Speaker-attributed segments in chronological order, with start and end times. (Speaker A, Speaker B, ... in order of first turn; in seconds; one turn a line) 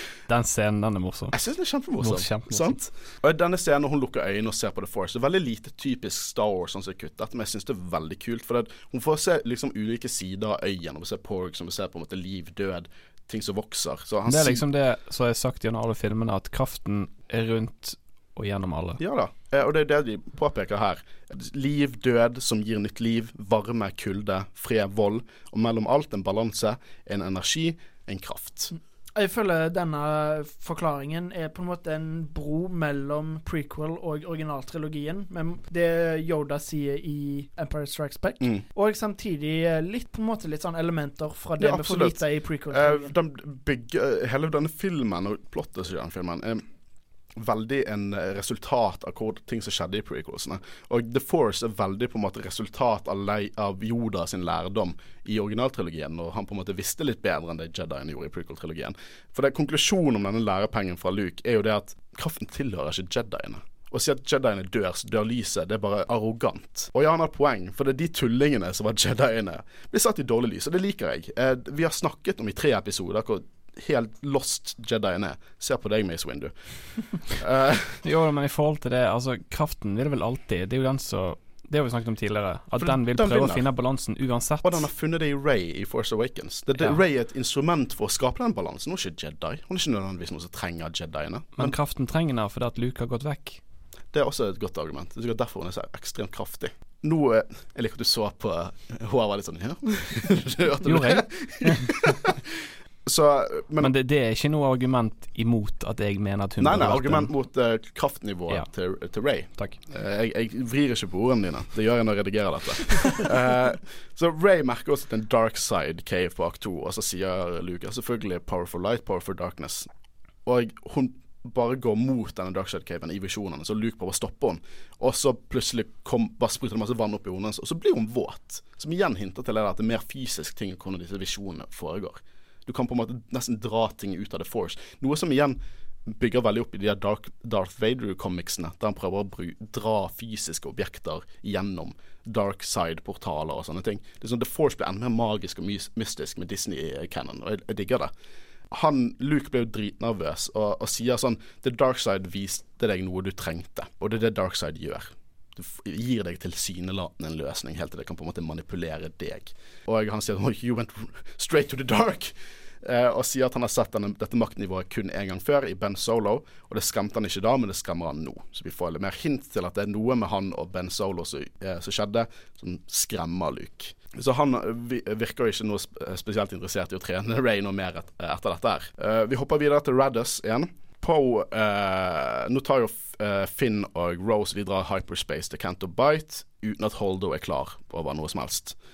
Speaker A: 0.3-1.4
Speaker B: 1.3-14.6
Speaker A: 2.0-2.8
Speaker A: 14.3-19.0
Speaker B: 19.0-28.8
Speaker C: 29.2-43.1
Speaker B: 41.6-46.6
Speaker B: 47.4-76.5
Speaker B: 77.1-78.0
Speaker A: 78.0-84.8
Speaker B: 82.8-83.6
Speaker B: 84.6-91.8
Speaker A: 91.6-93.6
Speaker B: 94.1-103.9
Speaker A: 100.8-102.0
Speaker A: 103.8-107.3
Speaker B: 106.6-119.9
Speaker B: 120.5-148.1
Speaker B: 148.7-188.8